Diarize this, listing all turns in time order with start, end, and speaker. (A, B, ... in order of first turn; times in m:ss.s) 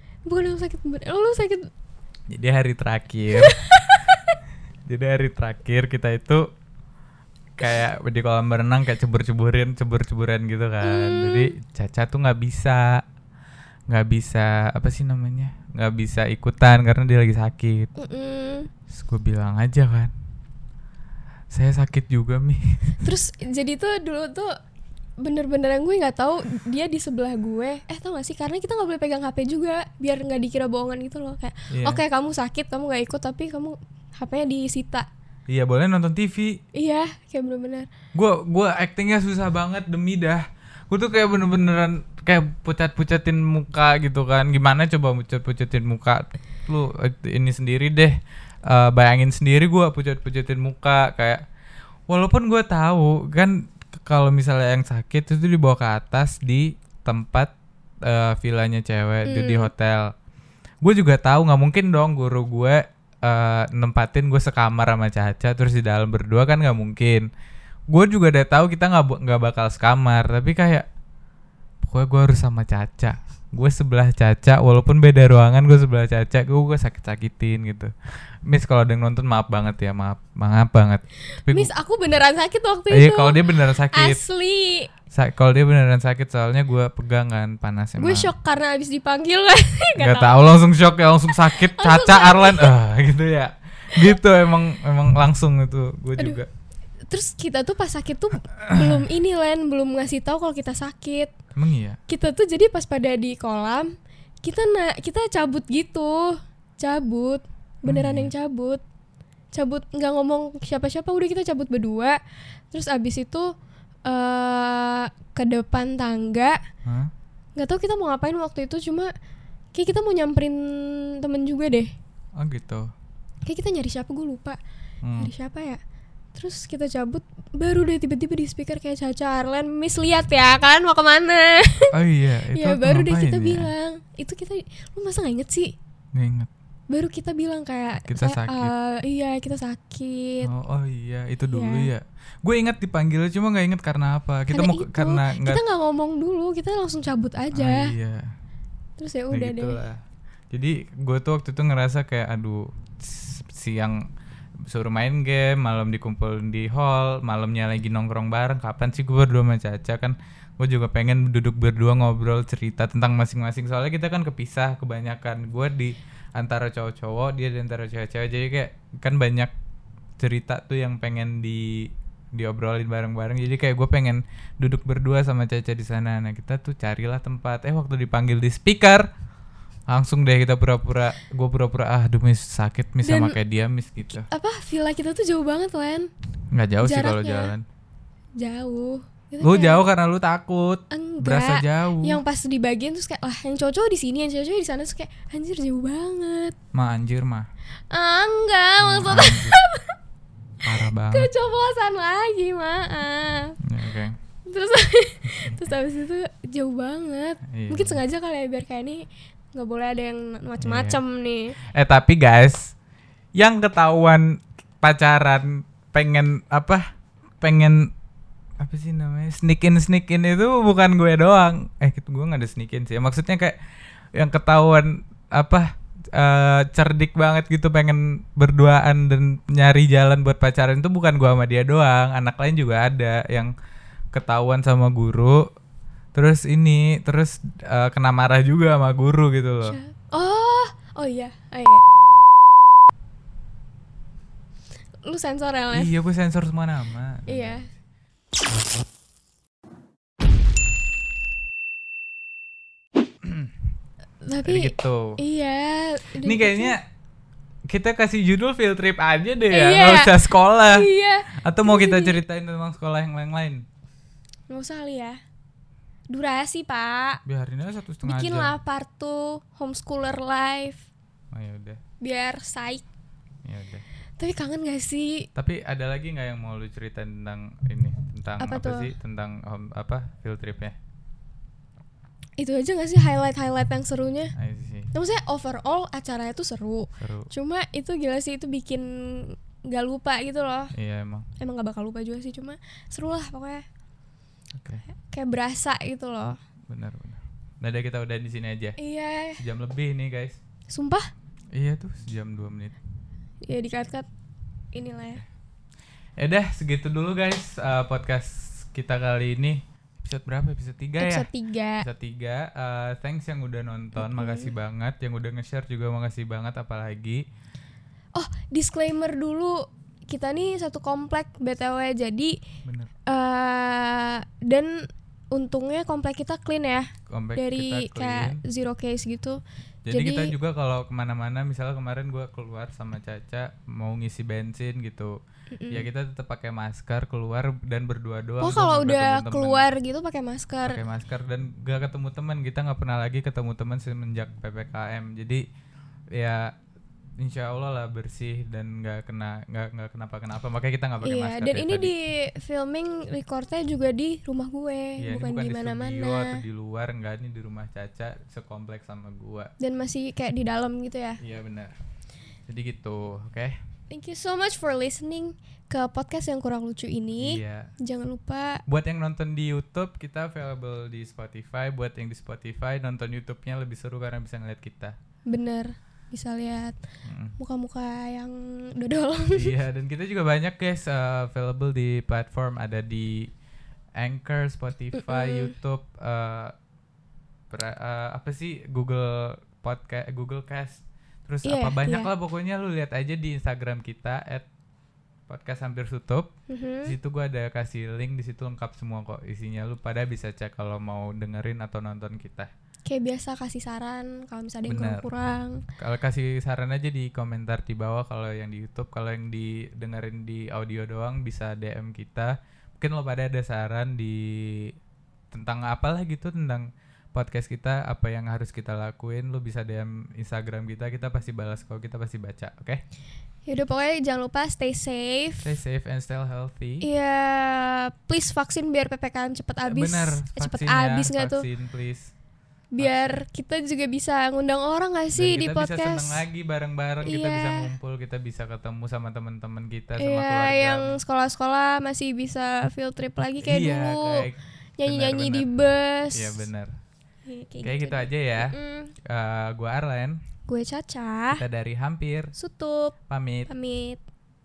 0:00.3-0:01.7 A
0:02.3-0:03.6 B
0:03.3-0:04.4 A
0:04.9-0:06.5 B
0:07.6-0:13.0 B
0:10.8-0:11.5 A
0:13.9-0:17.9 B
0:18.0-0:18.7 A
0:18.9-0:20.1 B
0:21.5-0:22.6 B
0:23.0-0:24.5 A
0:25.2-0:35.1 A
0:31.7-0:32.0 B
0:35.5-0:36.6 B
0:36.8-0:37.9 A
0:38.1-0:51.4 B
0:52.1-0:57.5 B
0:58.0-1:00.1 B
0:59.3-0:59.7 A
1:00.8-1:07.3 B
1:07.9-1:10.9 B
1:11.8-1:17.9 B
1:18.5-1:21.7 B
1:21.5-1:24.9 A
1:22.9-1:24.2 B
1:25.1-1:28.3 B
1:28.0-1:30.5 A
1:30.0-1:36.5 B
1:31.3-1:32.8 A
1:37.1-1:41.3 A
1:38.6-1:39.0 B
1:41.6-1:42.0 B
1:42.1-1:48.8 A
1:47.9-1:48.3 B
1:49.5-1:52.2 A
1:52.7-1:53.5 A
1:54.1-1:56.6 A
1:56.8-1:57.1 B
1:57.6-1:59.1 A
1:59.8-2:01.9 A
2:02.4-2:02.9 B
2:03.5-2:04.6 A
2:05.0-2:05.3 B
2:05.2-2:05.8 A
2:06.4-2:11.9 A
2:11.9-2:13.7 B
2:12.5-2:15.8 A
2:16.2-2:16.5 B
2:16.9-2:20.5 A
2:18.1-2:18.7 B
2:20.4-2:25.6 B
2:21.5-2:21.9 A
2:24.5-2:27.9 A
2:27.5-2:28.3 B
2:29.0-2:29.8 A
2:29.3-2:34.0 B
2:34.7-2:49.5 B
2:50.2-2:59.1 B
2:59.9-3:04.3 B
3:03.0-3:03.4 A
3:04.1-3:06.1 A
3:06.5-3:07.6 B
3:06.8-3:07.5 A
3:08.4-3:09.8 A
3:09.4-3:12.2 B
3:10.9-3:16.6 A
3:16.7-3:17.5 B
3:17.9-3:20.0 A
3:18.8-3:19.6 B
3:20.6-3:21.3 B
3:21.1-3:23.6 A
3:23.6-3:24.2 B
3:24.5-3:31.6 A
3:27.5-3:28.0 B
3:30.6-3:31.0 B
3:31.6-3:32.7 B
3:33.4-3:36.9 B
3:37.4-3:37.9 B
3:38.6-3:43.6 B
3:44.2-3:53.5 B
3:54.1-3:55.4 B
3:56.2-3:59.8 B
3:59.7-4:01.9 A
4:05.0-4:05.9 A
4:05.7-4:07.7 B
4:07.3-4:07.7 A
4:13.2-4:13.5 B
4:14.2-4:16.8 A
4:14.4-4:15.2 B
4:16.2-4:16.8 B
4:17.7-4:23.7 B
4:19.5-4:22.2 A
4:24.5-4:25.2 A
4:26.1-4:27.2 A
4:27.3-4:28.5 B
4:28.0-4:30.8 A
4:31.3-4:31.8 B
4:32.0-4:32.8 A
4:33.4-4:33.8 B
4:34.2-4:35.3 A
4:35.4-4:40.8 B
4:38.4-4:38.9 A
4:42.4-4:44.3 A
4:44.4-4:44.9 B
4:44.9-4:50.7 A
4:47.0-4:47.3 B
4:50.7-4:51.3 B
4:51.4-4:53.6 A
4:54.6-4:54.8 B
4:55.0-4:56.4 A
4:56.7-4:58.8 B
4:58.8-4:59.4 A
4:59.4-5:00.4 B
5:00.7-5:01.1 A
5:01.6-5:02.8 B
5:03.4-5:04.1 A
5:04.7-5:05.2 A
5:06.2-5:11.3 B
5:11.0-5:11.9 A
5:11.8-5:17.2 B
5:14.0-5:14.5 A
5:18.1-5:22.4 A
5:22.6-5:22.9 B
5:23.1-5:30.4 A
5:27.1-5:28.4 B
5:29.9-5:35.2 B
5:35.5-5:35.9 A
5:35.7-5:39.7 B
5:38.4-5:40.8 A
5:40.7-5:45.4 B
5:46.2-5:46.5 B
5:47.2-5:51.9 B
5:51.0-5:56.4 A
5:55.0-5:59.5 B
5:59.6-6:01.2 A
6:01.2-6:01.8 B
6:02.5-6:03.6 B
6:03.9-6:08.6 A
6:07.2-6:07.7 B
6:08.7-6:15.0 B
6:15.3-6:16.8 A
6:17.0-6:17.4 B
6:17.4-6:19.5 A
6:19.3-6:23.3 B
6:24.0-6:26.5 B
6:24.9-6:25.5 A
6:27.5-6:34.5 B
6:31.4-6:32.1 A
6:35.3-6:36.3 B
6:36.5-6:37.0 A
6:36.8-6:42.5 B
6:42.9-6:45.6 A
6:44.7-6:45.1 B
6:45.8-6:54.8 B
6:55.3-7:02.8 B
7:03.5-7:05.5 A
7:05.4-7:06.9 B
7:06.8-7:11.5 A
7:09.6-7:12.1 B
7:12.8-7:16.2 A
7:12.8-7:13.2 B
7:15.1-7:20.9 B
7:17.0-7:17.7 A
7:20.0-7:24.3 A
7:23.4-7:25.5 B
7:24.8-7:26.4 A
7:26.1-7:26.7 B
7:27.3-7:28.9 A
7:27.6-7:30.2 B
7:30.5-7:31.4 A
7:31.3-7:32.3 B
7:32.4-7:33.0 A
7:33.1-7:33.5 B
7:33.5-7:34.0 A